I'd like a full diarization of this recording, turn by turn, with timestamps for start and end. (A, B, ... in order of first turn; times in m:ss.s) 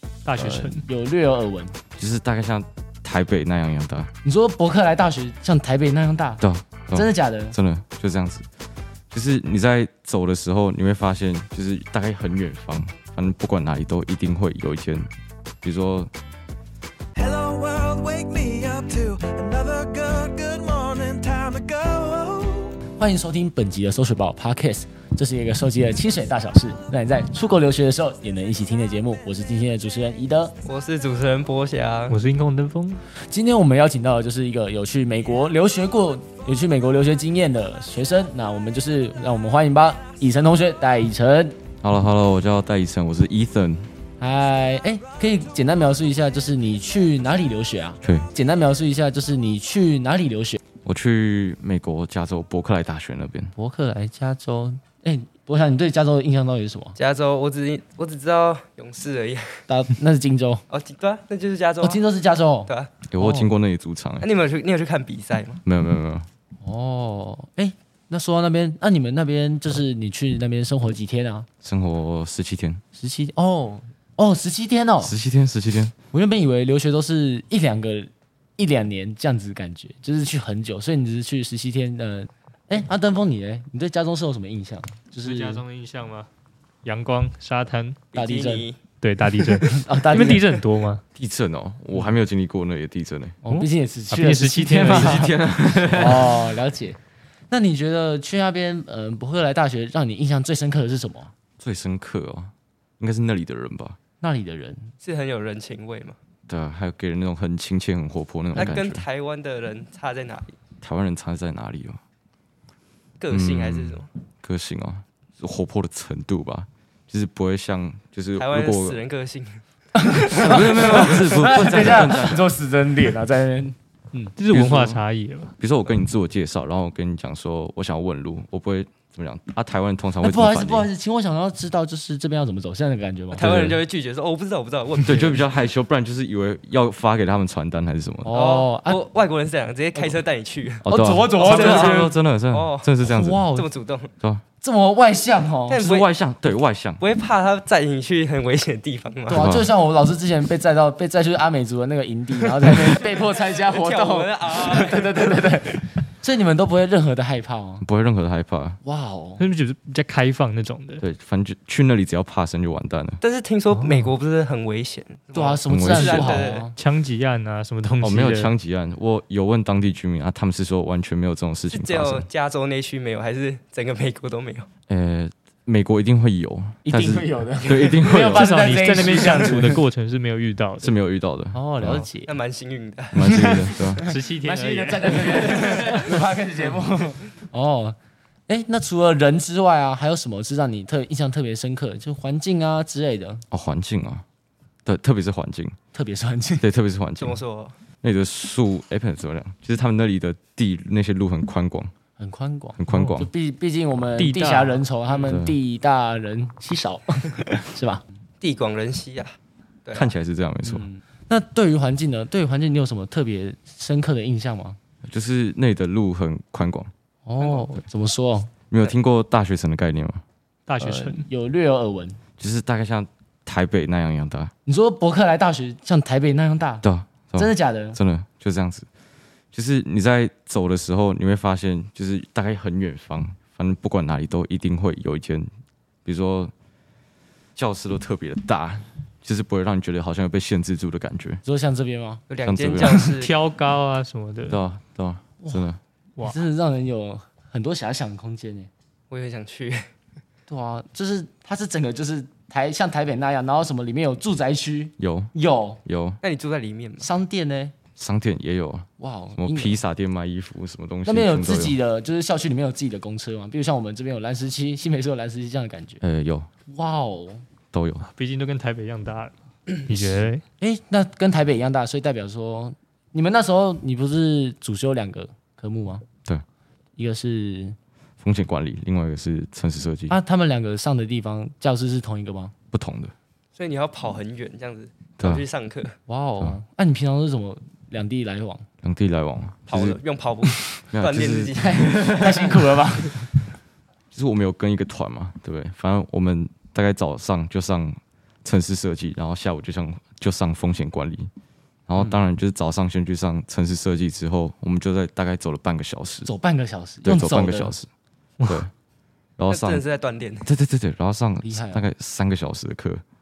0:00.2-0:00.9 A
0:00.4-0:00.7 B
0:00.8-0:01.8 C
0:02.0-0:04.1 B
0:04.2-0:06.4 C
0:06.4-0:08.5 B
0:06.9-0:07.6 C
0:09.1-0:15.1 B
0:15.6-0:16.1 B
0:17.2-0:22.7 D
0:23.0-0:30.5 C
0:30.6-0:32.2 E
0:32.1-0:33.0 A
0:33.2-0:41.6 C
0:41.8-0:43.9 B
0:44.2-0:50.6 C
0:50.8-0:53.5 B
0:53.6-0:57.0 C
0:57.0-0:59.6 E
0:59.7-1:00.6 C
1:00.7-1:02.0 E
1:01.8-1:03.5 C
1:02.7-1:02.9 E
1:03.1-1:04.3 B
1:04.2-1:05.6 E
1:05.6-1:06.3 B
1:06.6-1:11.5 C
1:11.6-1:12.8 B
1:13.0-1:15.1 C
1:15.0-1:15.9 B
1:16.1-1:25.6 C
1:25.2-1:26.3 A
1:26.8-1:28.0 A
1:28.1-1:28.8 E
1:28.1-1:28.7 C
1:29.0-1:31.0 A
1:29.4-1:30.6 C
1:31.2-1:33.4 B
1:33.4-1:35.3 C
1:33.5-1:35.3 A
1:34.7-1:36.4 B
1:35.9-1:37.0 C
1:37.5-1:41.3 C
1:41.6-1:44.0 B
1:44.2-1:44.9 C
1:45.0-1:46.2 E
1:46.5-1:49.0 B
1:48.5-1:50.6 E
1:50.8-1:52.0 B
1:53.2-1:54.1 E
1:53.3-1:59.0 B
1:58.4-1:59.6 E
2:00.0-2:04.3 C
2:00.1-2:01.2 E
2:00.3-2:02.5 B
2:04.4-2:05.6 A
2:04.5-2:05.0 B
2:05.6-2:10.9 B
2:10.2-2:13.5 C
2:13.3-2:15.4 E
2:13.4-2:13.8 B
2:15.0-2:18.4 B
2:18.2-2:19.0 C
2:18.3-2:22.9 E
2:20.8-2:23.5 B
2:20.9-2:22.2 C
2:23.0-2:23.7 C
2:23.5-2:24.1 E
2:24.6-2:25.8 C
2:25.7-2:26.1 E
2:25.8-2:27.0 B
2:27.0-2:29.5 E
2:29.3-2:37.8 C
2:29.3-2:29.7 B
2:33.4-2:35.2 E
2:37.8-2:38.8 B
2:38.8-2:39.4 C
2:39.4-2:41.0 A
2:41.0-2:43.2 B
2:43.2-2:46.7 E
2:43.7-2:44.1 C
2:45.3-2:46.8 C
2:45.7-2:46.4 B
2:46.8-2:48.5 A
2:48.0-2:52.3 B
2:51.7-2:54.7 E
2:54.9-2:59.5 B
2:56.8-2:59.8 C
2:58.3-3:00.9 A
3:00.8-3:02.1 B
3:01.5-3:02.3 C
3:02.3-3:03.5 E
3:03.1-3:04.1 B
3:03.2-3:08.0 C
3:04.0-3:06.1 A
3:08.5-3:13.4 C
3:13.5-3:14.2 B
3:14.8-3:15.8 B
3:15.9-3:16.7 C
3:16.6-3:17.4 B
3:17.2-3:17.8 E
3:18.0-3:21.9 B
3:22.2-3:28.0 C
3:22.8-3:23.3 B
3:24.2-3:24.8 A
3:25.2-3:25.6 B
3:28.4-3:30.1 E
3:29.9-3:30.9 B
3:30.6-3:34.8 C
3:35.0-3:36.9 B
3:37.3-3:38.5 C
3:38.7-3:40.2 B
3:40.7-3:41.3 A
3:40.8-3:42.2 C
3:42.4-3:44.5 B
3:44.7-3:46.8 C
3:46.8-3:48.9 B
3:47.4-3:48.0 C
3:49.5-3:55.5 B
3:56.0-3:56.5 B
3:57.6-4:01.4 B
4:01.4-4:02.2 C
4:02.3-4:03.4 E
4:02.4-4:03.0 B
4:03.2-4:04.6 A
4:04.5-4:05.8 B
4:05.4-4:08.7 C
4:09.1-4:09.9 E
4:10.5-4:15.8 C
4:15.0-4:15.3 B
4:15.8-4:16.2 B
4:16.2-4:17.1 E
4:17.0-4:17.8 C
4:18.0-4:21.8 B
4:19.0-4:19.8 C
4:21.0-4:26.0 C
4:26.0-4:26.5 B
4:26.7-4:27.4 C
4:27.7-4:28.1 B
4:28.1-4:29.4 A
4:29.9-4:30.4 A
4:30.6-4:36.0 C
4:37.0-4:37.8 C
4:38.2-4:40.2 B
4:40.1-4:42.5 C
4:42.7-4:43.1 B
4:43.6-4:46.0 E
4:45.2-4:45.4 B
4:46.1-4:48.6 C
4:48.8-4:50.0 B
4:49.7-4:52.5 E
4:50.9-4:51.9 B
4:51.6-4:53.3 C
4:54.1-5:01.3 B
5:01.9-5:06.3 B
5:06.3-5:07.8 C
5:07.0-5:07.9 B
5:08.5-5:08.7 B
5:09.4-5:09.8 B
5:09.5-5:10.5 E
5:10.4-5:13.0 B
5:11.4-5:11.9 C